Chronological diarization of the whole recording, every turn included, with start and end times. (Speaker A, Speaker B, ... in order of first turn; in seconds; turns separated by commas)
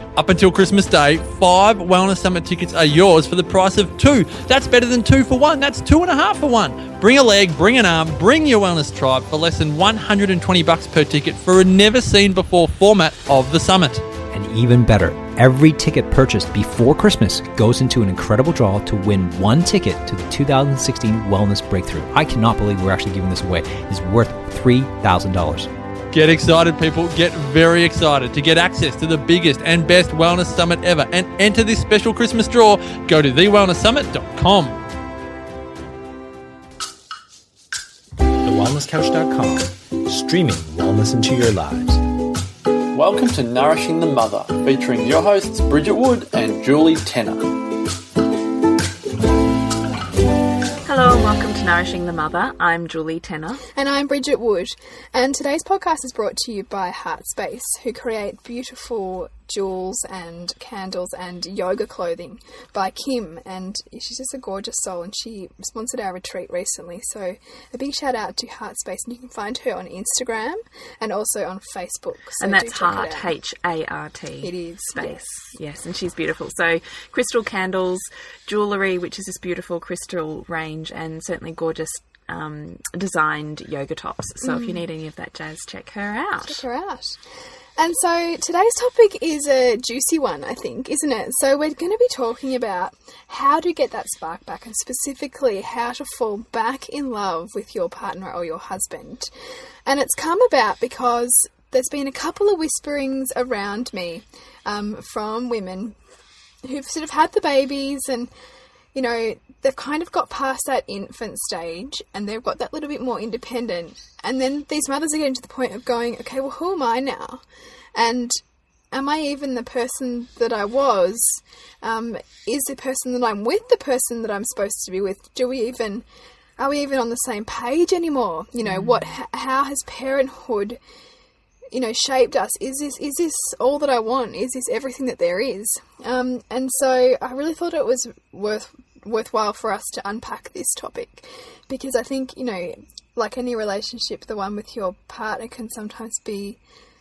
Speaker A: 0.1-14.0, Speaker B: 14.3-25.7, Speaker A: 26.1-34.8, Speaker B: 38.4-42.0, Speaker C: 42.9-47.5, Speaker D: 50.8-53.6, Speaker E: 53.7-73.3, Speaker D: 72.4-86.6, Speaker E: 74.4-75.2, Speaker E: 84.4-84.8, Speaker E: 86.4-87.2, Speaker E: 87.8-99.3, Speaker E: 99.8-106.0, Speaker E: 106.6-108.3, Speaker E: 108.9-117.4, Speaker E: 117.9-118.4, Speaker E: 118.9-126.0, Speaker E: 126.6-130.8, Speaker D: 128.6-129.1, Speaker E: 131.7-146.6